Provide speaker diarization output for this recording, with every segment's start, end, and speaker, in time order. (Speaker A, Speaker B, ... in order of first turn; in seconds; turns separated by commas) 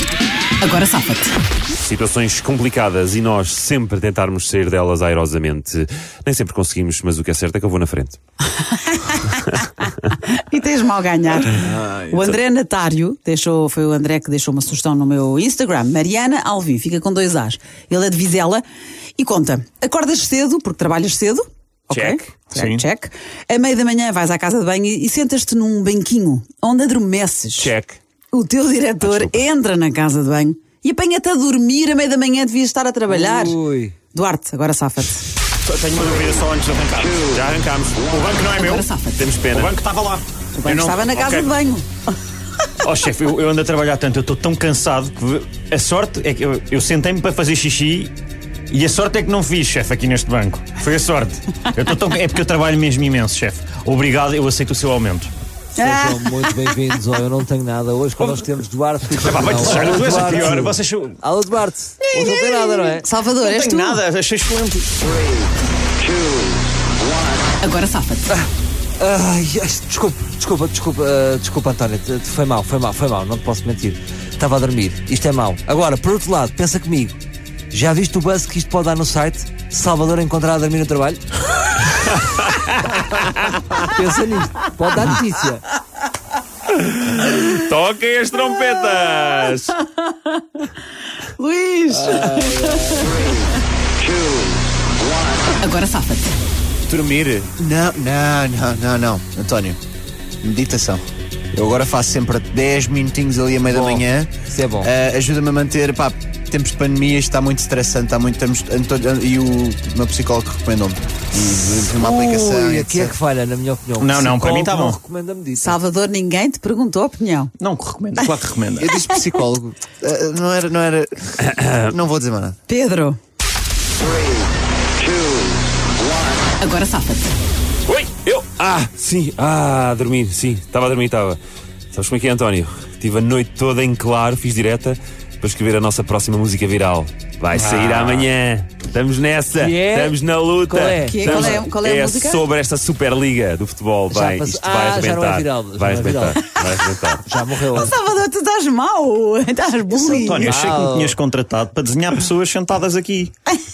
Speaker A: 0.6-1.3, Speaker B: 1.8-8.2, Speaker A: 8.5-18.6, Speaker C: 11.6-12.2, Speaker A: 19.2-27.7, Speaker B: 21.9-22.2, Speaker D: 22.5-22.8, Speaker B: 27.6-28.0, Speaker A: 28.3-33.6, Speaker B: 29.0-29.4, Speaker E: 33.1-34.0, Speaker A: 34.1-35.3, Speaker D: 35.6-37.4, Speaker B: 37.2-38.5, Speaker D: 38.0-38.9, Speaker A: 38.5-39.3, Speaker B: 39.1-39.7, Speaker D: 39.5-41.5, Speaker A: 40.5-41.9, Speaker D: 42.8-48.1, Speaker D: 48.7-55.3, Speaker A: 55.8-56.5, Speaker E: 55.8-63.1, Speaker D: 59.1-61.1, Speaker A: 62.1-64.0, Speaker D: 63.4-65.1, Speaker A: 67.6-68.3, Speaker E: 69.0-77.2, Speaker E: 77.7-81.2, Speaker B: 81.9-83.4, Speaker E: 83.8-85.6, Speaker B: 86.7-89.8, Speaker A: 89.8-90.6, Speaker A: 91.3-93.6, Speaker A: 95.5-96.3, Speaker C: 96.8-99.8, Speaker C: 100.4-104.3, Speaker E: 103.7-104.9, Speaker C: 104.8-113.2, Speaker E: 111.8-115.8, Speaker D: 114.0-115.0, Speaker A: 115.6-117.5, Speaker D: 117.6-118.9, Speaker C: 118.8-121.3, Speaker B: 121.4-121.9, Speaker C: 121.9-122.6, Speaker A: 122.7-123.2, Speaker A: 126.6-127.3, Speaker B: 127.9-131.4, Speaker B: 131.9-147.2, Speaker E: 139.5-141.7, Speaker A: 141.0-142.4, Speaker E: 144.1-146.4, Speaker E: 147.2-148.0, Speaker A: 147.7-150.6, Speaker D: 149.9-153.3, Speaker E: 150.4-151.2